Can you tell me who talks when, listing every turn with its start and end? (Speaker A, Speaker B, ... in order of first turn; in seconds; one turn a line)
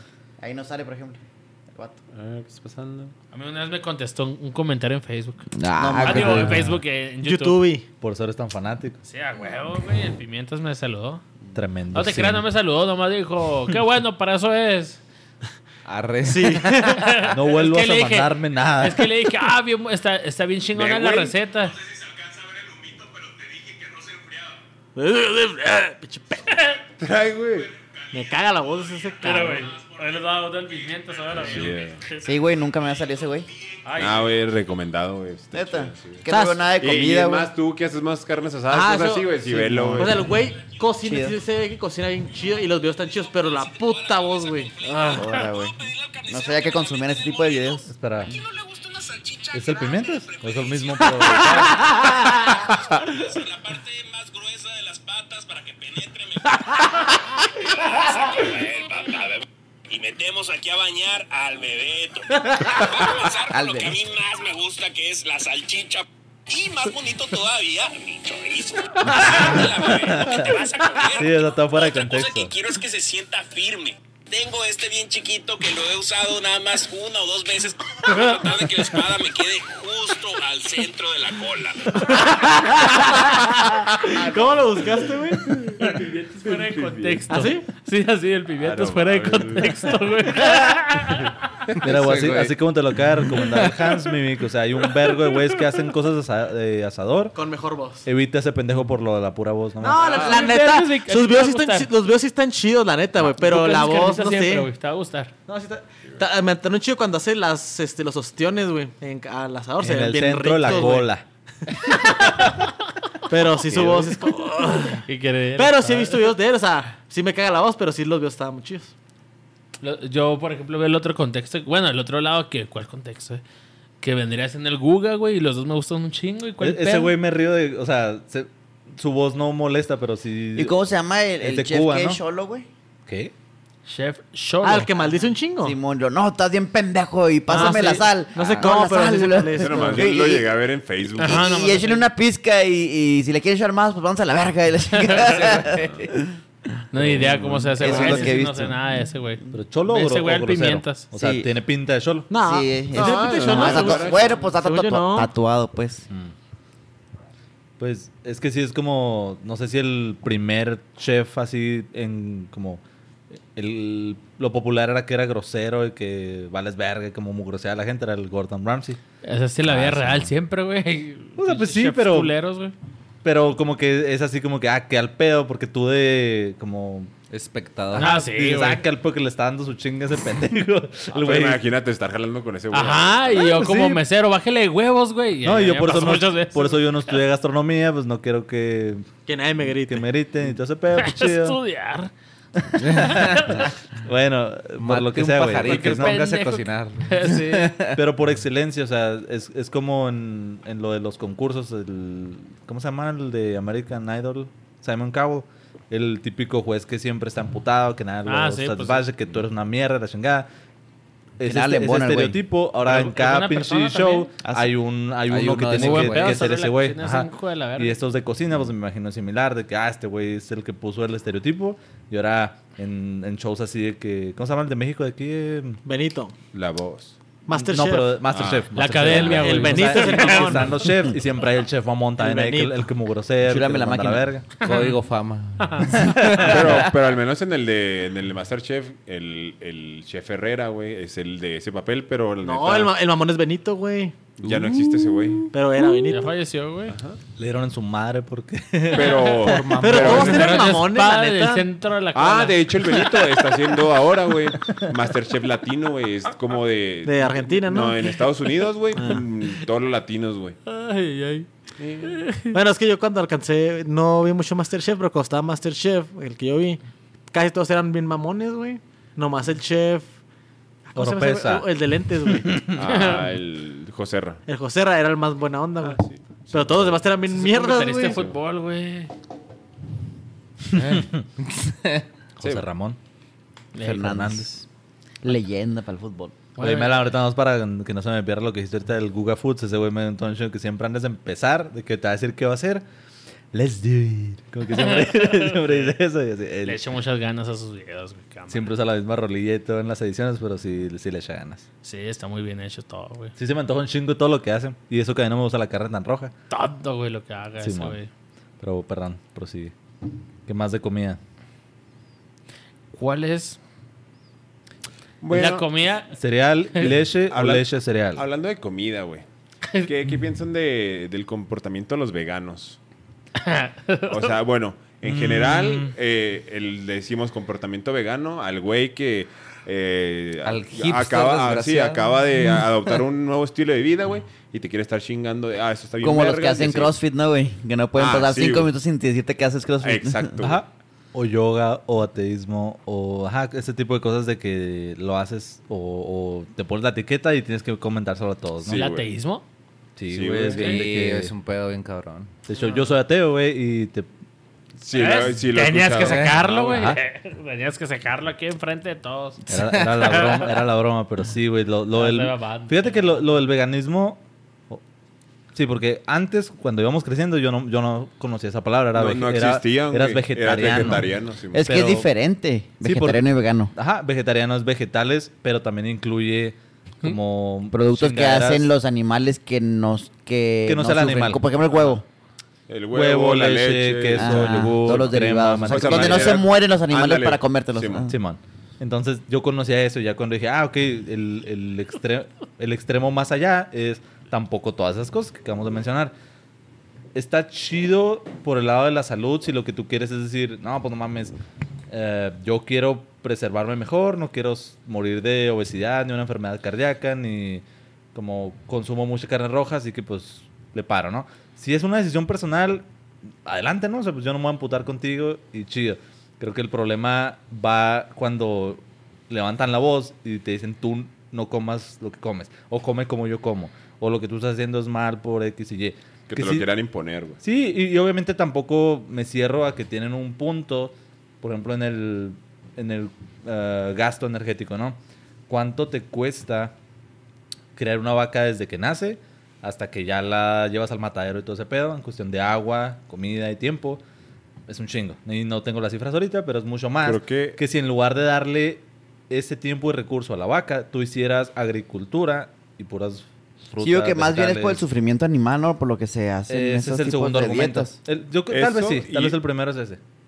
Speaker A: 0.4-1.2
Speaker B: 2.1-3.1
Speaker C: 3.3-5.5
Speaker D: 5.6-6.5
Speaker A: 5.8-6.6
Speaker C: 6.0-7.6
Speaker E: 6.3-6.8
Speaker F: 7.2-7.8
Speaker E: 8.0-9.0
Speaker C: 9.0-11.2
Speaker E: 11.6-12.5
Speaker C: 11.9-15.0
Speaker D: 15.8-16.9
Speaker F: 16.2-17.2
Speaker C: 16.8-21.8
Speaker E: 17.3-19.1
Speaker B: 20.8-21.3
Speaker G: 21.6-24.6
Speaker F: 24.9-26.5
Speaker C: 26.5-26.8
Speaker B: 27.0-27.7
Speaker G: 27.5-32.0
Speaker F: 28.1-29.6
Speaker C: 29.2-32.3
Speaker B: 31.4-32.0
Speaker A: 32.2-33.5
Speaker G: 32.8-33.1
Speaker C: 33.9-34.3
Speaker B: 34.0-40.3
Speaker A: 35.5-37.5
Speaker F: 36.3-36.7
Speaker F: 38.7-39.4
Speaker A: 39.5-40.2
Speaker F: 40.0-45.2
Speaker A: 41.0-41.4
Speaker G: 43.2-82.7
Speaker A: 45.2-47.9
Speaker E: 47.9-48.4
Speaker E: 49.5-52.0
Speaker A: 63.5-64.0
Speaker E: 69.2-70.6
Speaker E: 71.1-72.5
Speaker F: 82.2-85.8
Speaker B: 84.1-85.1
Speaker B: 85.7-86.0
Speaker C: 85.7-91.4
Speaker B: 86.6-87.3
Speaker F: 87.3-87.7
Speaker B: 88.6-89.9
Speaker D: 91.8-92.6
Speaker E: 91.8-97.4
Speaker F: 97.3-98.0
Speaker E: 98.0-100.1
Speaker F: 99.8-104.7
Speaker B: 100.0-100.4
Speaker C: 100.1-101.9
Speaker C: 103.4-105.3
Speaker F: 105.5-111.1
Speaker E: 109.8-111.2
Speaker F: 112.0-112.5
Speaker F: 113.3-118.9
Speaker E: 113.7-114.0
Speaker C: 115.0-116.3
Speaker C: 119.8-123.4
Speaker C: 124.0-127.2
Speaker E: 126.6-130.8
Speaker A: 130.6-132.7
Speaker E: 131.4-132.2
Speaker E: 133.1-133.3
Speaker C: 133.9-134.9
Speaker F: 134.6-135.8
Speaker A: 135.6-140.5
Speaker F: 137.5-140.1
Speaker C: 137.5-137.9
Speaker B: 139.6-141.5
Speaker A: 141.2-146.4
Speaker C: 141.2-142.1
Speaker C: 144.9-145.6
Speaker B: 145.5-146.1
Speaker C: 146.9-151.1
Speaker E: 147.0-148.1
Speaker A: 147.8-148.8
Speaker E: 149.5-152.3
Speaker A: 151.1-151.5
Speaker F: 152.3-155.3
Speaker A: 152.3-156.1
Speaker B: 152.9-154.4
Speaker E: 157.8-162.8
Speaker E: 163.5-169.0
Speaker C: 169.2-172.7
Speaker E: 169.6-170.3
Speaker E: 171.4-172.3
Speaker E: 173.2-177.1
Speaker D: 177.3-178.2
Speaker C: 177.9-178.8
Speaker E: 177.9-181.6
Speaker B: 181.1-183.6
Speaker C: 182.7-186.9
Speaker E: 183.4-184.0
Speaker E: 185.4-189.1
Speaker F: 189.3-190.1
Speaker E: 189.7-191.6
Speaker C: 191.0-192.1
Speaker C: 192.7-193.7
Speaker E: 192.8-196.5
Speaker D: 192.8-193.7
Speaker D: 194.8-198.0
Speaker C: 195.6-197.8
Speaker E: 197.9-210.5
Speaker C: 208.3-209.1
Speaker E: 211.4-225.8
Speaker A: 211.4-212.4
Speaker C: 212.8-214.3
Speaker A: 214.4-214.7
Speaker D: 215.3-216.6
Speaker C: 215.8-218.0
Speaker F: 225.8-226.3
Speaker B: 226.5-227.2
Speaker F: 227.5-228.2
Speaker E: 227.5-234.5
Speaker B: 228.3-228.7
Speaker C: 228.8-230.9
Speaker F: 229.2-230.9
Speaker F: 232.2-232.9
Speaker A: 233.4-234.3
Speaker D: 234.6-236.9
Speaker C: 234.6-235.0
Speaker C: 235.6-236.2
Speaker E: 236.0-236.8
Speaker B: 236.4-242.9
Speaker F: 242.4-244.2
Speaker B: 244.4-245.5
Speaker F: 245.5-246.3
Speaker C: 246.1-247.0
Speaker B: 246.9-247.2
Speaker E: 247.4-250.5
Speaker B: 248.9-250.7
Speaker F: 249.8-251.7
Speaker C: 250.0-252.7
Speaker B: 252.2-260.6
Speaker F: 257.1-258.2
Speaker F: 259.0-259.2
Speaker C: 260.7-261.5
Speaker B: 261.8-262.2
Speaker C: 262.0-262.6
Speaker F: 262.5-266.8
Speaker F: 267.3-270.1
Speaker F: 270.9-272.7
Speaker E: 271.0-271.7
Speaker E: 272.3-272.7
Speaker B: 272.8-274.4
Speaker C: 272.8-273.3
Speaker F: 274.5-278.2
Speaker B: 275.8-277.0
Speaker C: 277.3-279.1
Speaker E: 280.7-281.2
Speaker D: 280.8-282.0
Speaker E: 282.4-283.0
Speaker B: 282.4-282.7
Speaker C: 283.7-284.2
Speaker A: 283.8-284.6
Speaker E: 283.9-284.5
Speaker A: 285.2-286.4
Speaker C: 286.6-287.0
Speaker E: 286.6-292.9
Speaker E: 293.5-296.8
Speaker C: 294.8-295.9
Speaker C: 296.6-298.8
Speaker E: 298.5-301.7
Speaker C: 301.8-303.3
Speaker E: 303.4-306.3
Speaker C: 306.5-308.1
Speaker E: 307.6-308.0
Speaker E: 308.6-309.7
Speaker E: 310.5-311.2
Speaker C: 312.9-313.6
Speaker B: 315.2-315.7
Speaker C: 315.3-316.2
Speaker E: 316.1-318.2
Speaker B: 317.3-319.2
Speaker B: 319.8-322.8
Speaker C: 323.4-324.3
Speaker B: 324.1-336.9
Speaker E: 325.0-325.9
Speaker D: 330.4-332.2
Speaker A: 336.0-340.3
Speaker B: 338.0-338.7
Speaker B: 339.8-340.6
Speaker E: 340.4-348.9
Speaker B: 348.6-349.1
Speaker C: 348.7-349.4
Speaker E: 350.0-351.3
Speaker B: 350.1-350.9
Speaker D: 350.5-352.3
Speaker C: 350.6-350.8
Speaker E: 352.5-354.1
Speaker B: 354.8-356.9
Speaker C: 354.9-359.4
Speaker D: 356.1-356.4
Speaker E: 356.7-357.0
Speaker E: 359.5-364.8
Speaker D: 359.6-360.1
Speaker C: 360.0-360.5
Speaker C: 361.9-363.1
Speaker E: 365.5-372.1
Speaker B: 368.9-371.7
Speaker A: 371.5-373.7
Speaker E: 372.8-378.7
Speaker A: 377.7-382.1
Speaker E: 380.6-381.4
Speaker B: 382.7-388.1
Speaker E: 382.9-386.4
Speaker A: 384.1-388.1
Speaker E: 388.1-396.1
Speaker E: 397.1-401.4
Speaker E: 401.9-412.9
Speaker E: 413.4-426.7
Speaker B: 426.3-427.4
Speaker E: 427.4-436.8
Speaker E: 437.8-444.0
Speaker E: 444.7-454.9
Speaker B: 447.0-447.6
Speaker A: 453.8-457.9
Speaker E: 456.5-460.0
Speaker B: 458.5-459.4